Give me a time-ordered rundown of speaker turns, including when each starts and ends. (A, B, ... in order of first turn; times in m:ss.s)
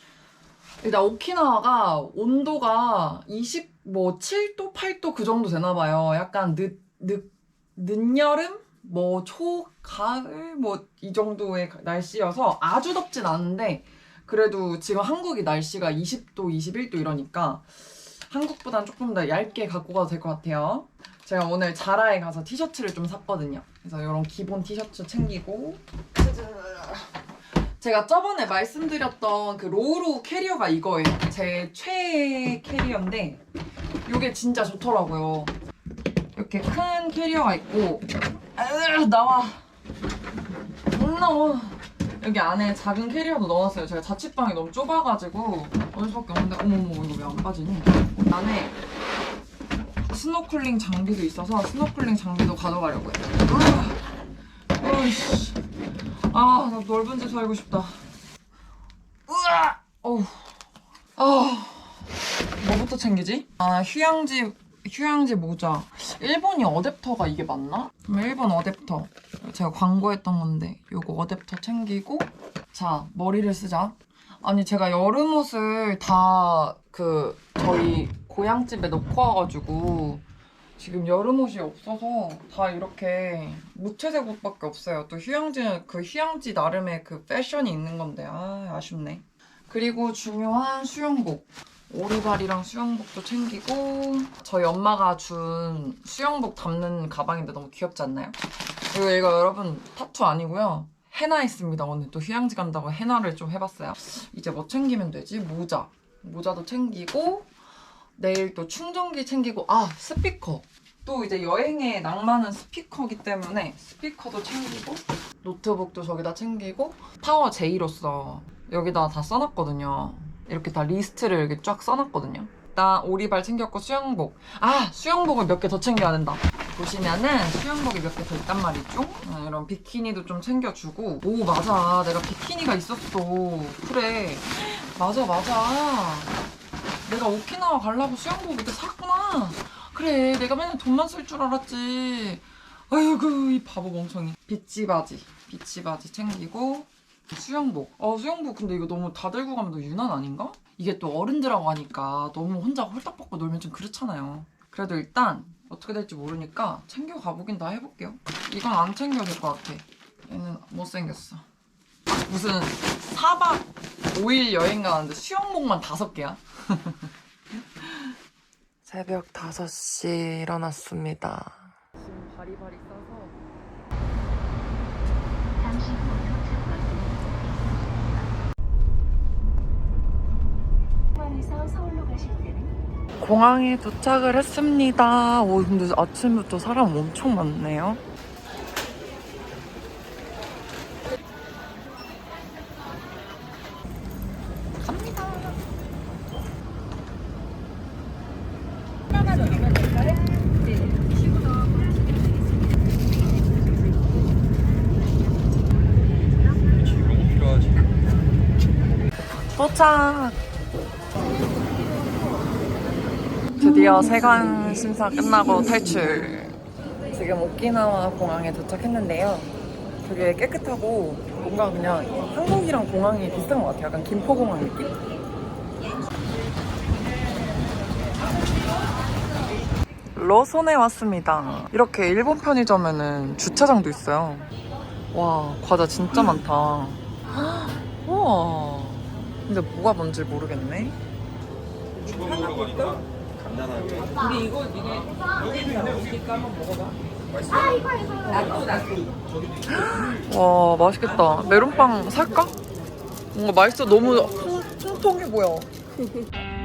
0:00.8-0:27.2 A
0:27.8-0:33.4 A
0:34.0-0:35.5 A
0:36.3-0:39.6 A
0:40.9-0:48.8 A
0:50.0-0:54.1 A
0:54.7-0:55.6 A
0:56.3-0:58.0 A
0:59.3-1:00.6 A
1:01.2-1:20.2 A
1:20.8-1:47.5 A
1:48.2-2:16.3 A
2:17.0-2:41.4 A
2:42.1-2:47.1 A
2:47.8-2:48.1 A
2:48.8-2:53.4 A
2:55.6-2:58.3 B
3:01.2-3:02.7 B
3:03.2-3:08.0 A
3:19.6-3:20.3 B
3:26.7-3:27.9 C
3:29.4-3:30.4 A
3:33.5-3:36.6 A
3:37.1-3:45.0 A
3:50.1-3:54.5 A
3:55.1-4:01.0 A
4:02.0-4:03.0 C
4:03.5-4:04.1 C
4:04.2-4:06.9 D
4:05.5-4:06.6 C
4:07.6-4:09.1 D
4:09.7-4:12.6 A
4:13.3-4:15.7 A